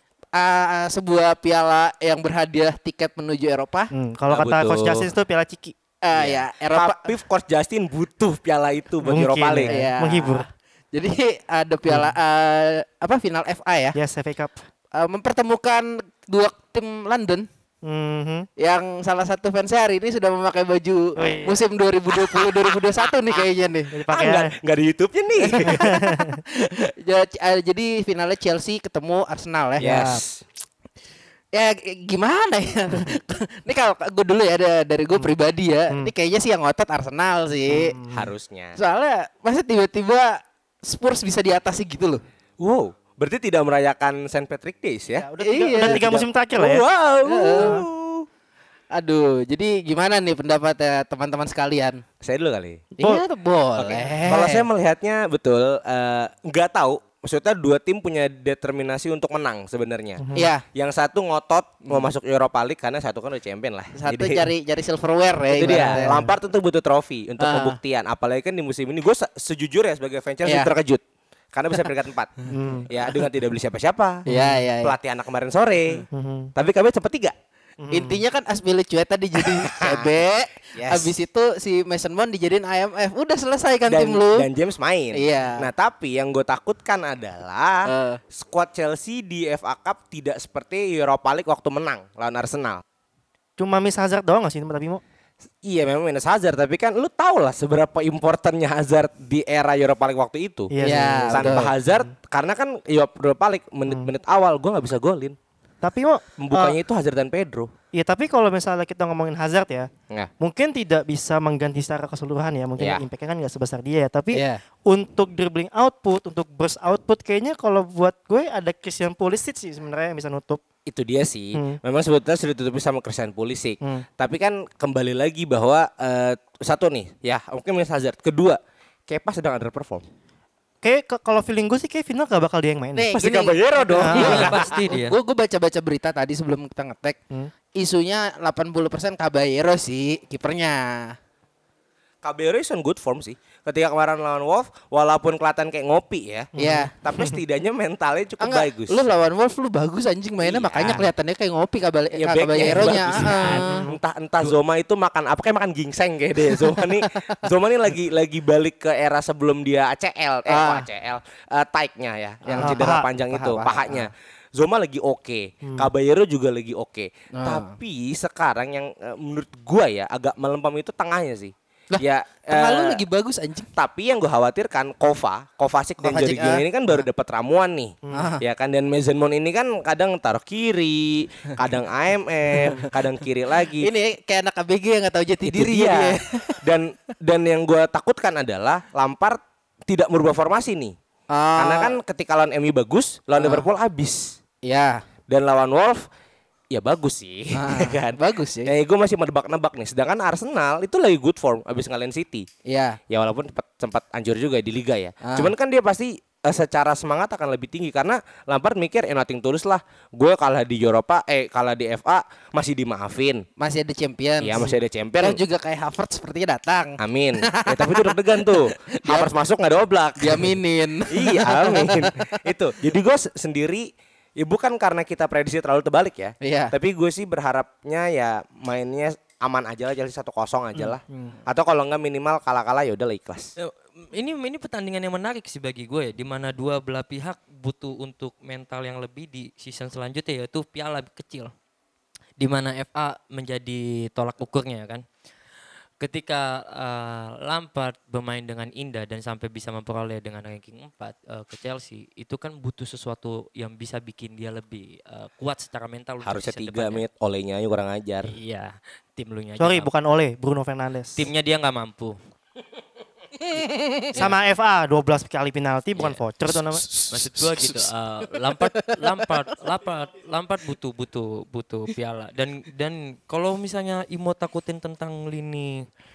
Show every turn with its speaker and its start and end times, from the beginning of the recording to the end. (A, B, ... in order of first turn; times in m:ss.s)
0:00.3-0:03.9 A
0:03.9-0:05.8 B
0:04.3-0:05.1 C
0:06.0-0:07.1 A
0:06.1-0:09.7 C
0:09.0-0:10.4 B
0:09.7-0:14.0 A
0:13.9-0:14.6 B
0:14.9-0:17.5 A
0:17.8-0:18.5 B
0:18.6-0:23.9 A
0:21.2-0:21.6 B
0:23.9-0:24.5 B
0:24.1-0:26.1 C
0:25.4-0:25.9 A
0:25.7-0:26.4 B
0:26.5-0:30.2 A
0:29.8-0:30.4 C
0:31.5-0:38.0 A
0:37.7-0:38.3 B
0:38.1-0:38.8 C
0:38.8-0:42.2 A
0:42.6-0:45.3 C
0:45.2-0:46.8 B
0:45.4-0:46.0 A
0:45.8-0:48.2 C
0:47.2-0:47.8 A
0:48.9-0:52.0 A
0:52.2-0:52.9 C
0:53.0-0:54.7 A
0:53.8-1:04.5 C
1:00.2-1:00.5 B
1:00.3-1:00.6 A
1:04.0-1:06.2 A
1:05.5-1:11.0 C
1:05.6-1:06.3 B
1:07.4-1:07.8 A
1:10.4-1:10.7 A
1:11.5-1:12.3 C
1:12.5-1:12.9 B
1:12.9-1:14.2 C
1:14.2-1:14.6 B
1:14.3-1:14.9 A
1:14.8-1:17.3 C
1:16.1-1:16.5 B
1:17.8-1:18.2 B
1:17.9-1:24.5 A
1:19.4-1:20.1 C
1:20.7-1:21.1 C
1:23.9-1:32.8 C
1:25.1-1:25.6 A
1:27.8-1:28.2 A
1:33.6-1:35.0 B
1:35.6-1:40.7 C
1:40.7-1:42.1 B
1:40.8-1:41.7 A
1:41.3-1:45.4 C
1:45.8-1:46.8 B
1:46.4-1:47.7 C
1:47.9-1:49.9 B
1:50.4-2:00.6 B
1:54.3-1:54.6 A
2:00.8-2:10.0 C
2:10.8-2:13.1 B
2:12.9-2:17.2 A
2:13.1-2:14.7 C
2:14.0-2:14.4 B
2:14.1-2:15.1 D
2:17.8-2:21.2 A
2:22.2-2:29.0 C
2:26.6-2:27.4 B
2:26.6-2:26.9 A
2:28.4-2:33.8 A
2:30.4-2:31.1 C
2:32.2-2:53.0 C
2:32.7-2:34.0 B
2:36.6-2:37.4 A
2:40.5-2:40.9 A
2:42.4-2:44.1 A
2:42.6-2:43.1 B
2:45.6-2:45.9 B
2:47.4-2:47.7 A
2:51.9-2:53.7 A
2:53.8-3:03.9 C
2:56.0-2:56.6 A
2:58.0-2:58.3 B
2:58.1-2:58.4 A
3:02.6-3:02.9 A
3:03.8-3:06.6 A
3:05.4-3:10.9 C
3:11.3-3:11.9 A
3:11.6-3:14.4 C
3:13.4-3:13.6 A
3:14.6-3:15.0 A
3:15.3-3:16.1 C
3:16.7-3:22.5 C
3:17.6-3:18.7 A
3:22.7-3:23.0 A
3:23.1-3:33.4 C
3:25.2-3:25.5 A
3:33.6-3:39.3 A
3:34.4-3:35.4 C
3:37.0-3:40.6 C
3:40.2-3:42.1 A
3:41.1-3:53.5 C
3:46.4-3:46.7 A
3:50.8-3:51.3 B
3:53.6-4:01.5 D
4:02.4-4:05.0 D
4:06.0-4:17.0 D
4:16.2-4:18.3 C
4:18.3-4:19.9 D
4:19.6-4:21.2 B
4:21.2-4:22.2 D
4:23.4-4:24.3 A
4:24.1-4:26.8 B
4:26.7-4:27.9 A
4:27.1-4:35.8 D
4:28.5-4:29.1 A